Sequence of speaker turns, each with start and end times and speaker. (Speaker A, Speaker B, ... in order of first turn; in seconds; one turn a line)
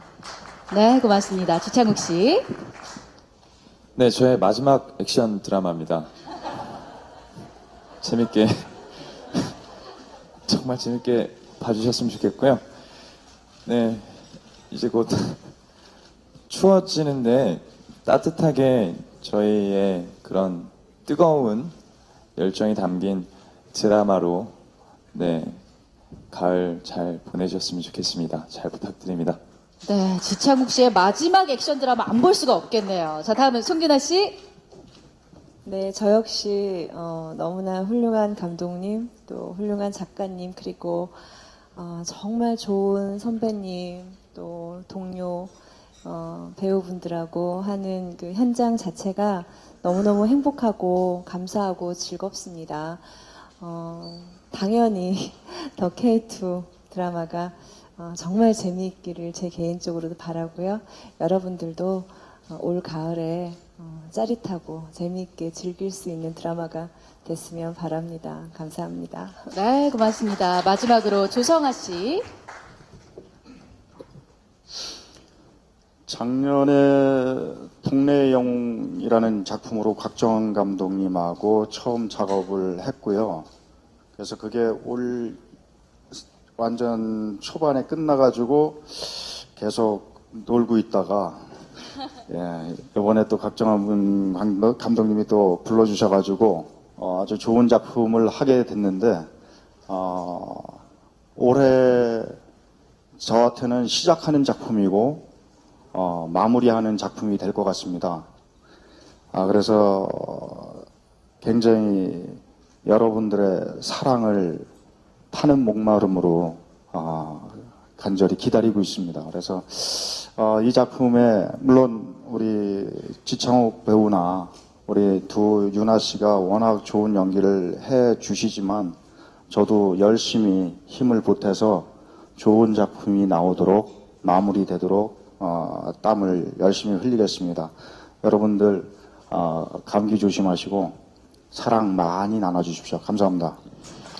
Speaker A: 0.7-2.5
Speaker B: 4.0-6.1
Speaker B: 8.0-8.7
Speaker B: 10.4-12.6
Speaker B: 13.7-15.5
Speaker B: 16.5-21.7
Speaker B: 22.4-24.5
Speaker B: 25.1-25.6
Speaker B: 26.3-29.4
Speaker A: 29.8-34.4
Speaker C: 35.6-41.2
Speaker C: 41.7-69.5
Speaker A: 69.5-72.2
Speaker D: 76.1-83.5
Speaker D: 84.2-85.4
Speaker D: 86.1-91.5
Speaker D: 92.3-99.3
Speaker D: 99.9-100.8
Speaker D: 101.3-102.4
Speaker D: 103.2-105.3
Speaker D: 105.9-108.3
Speaker D: 109.3-110.8
Speaker D: 111.4-114.7
Speaker D: 115.3-128.9
Speaker D: 129.5-141.0
Speaker D: 141.5-143.6